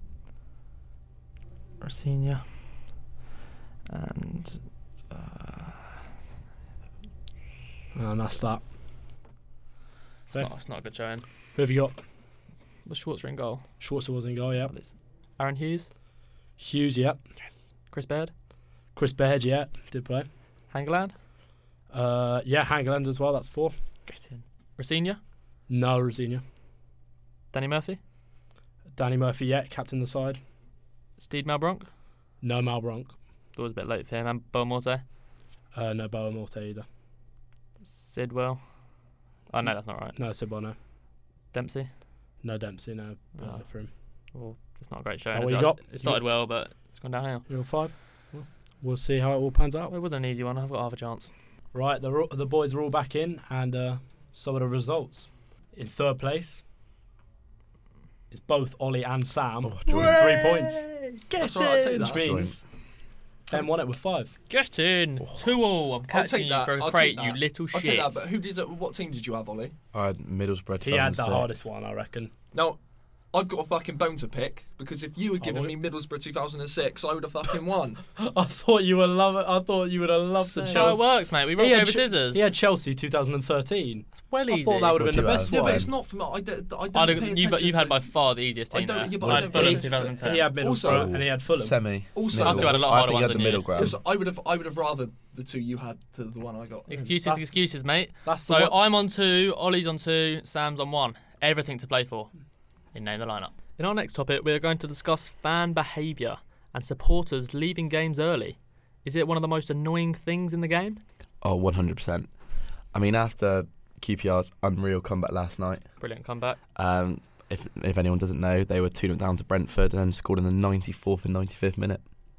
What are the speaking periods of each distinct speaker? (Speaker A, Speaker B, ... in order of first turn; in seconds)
Speaker A: 1.8-3.1, 3.9-5.9, 10.3-11.3, 12.8-13.8, 14.6-15.9, 17.4-18.3, 20.7-21.1, 24.1-25.2, 27.5-28.0, 31.2-31.9, 33.5-35.0, 37.8-40.2, 41.5-42.0, 43.4-47.9, 49.9-51.3, 64.5-68.2, 80.7-82.5, 84.1-85.3, 86.9-90.6, 92.4-93.8, 96.9-111.0, 116.0-116.6
Speaker B: 7.9-8.7, 10.3-10.8, 11.5-12.0, 13.8-14.8, 16.6-17.2, 18.9-20.3, 21.9-23.7, 25.7-26.4, 28.9-30.4, 32.4-33.2, 35.7-36.9, 39.6-40.8, 42.4-43.9, 45.3-46.4, 47.5-49.9, 51.7-56.6, 58.3-60.9, 61.7-62.6, 63.5-64.3, 70.8-72.3, 75.4-75.7, 78.2-85.8, 89.5-92.1, 96.9-97.7, 98.2-98.8
Speaker C: 59.6-60.5, 62.0-62.6, 69.9-71.6, 85.0-85.9, 89.2-89.8, 90.8-94.0, 111.4-112.3, 112.9-116.0, 116.7-122.0
Speaker D: 61.4-62.2, 66.1-69.8, 72.5-72.8, 73.3-78.0, 80.4-81.0, 85.4-91.5, 92.1-93.0, 93.7-96.9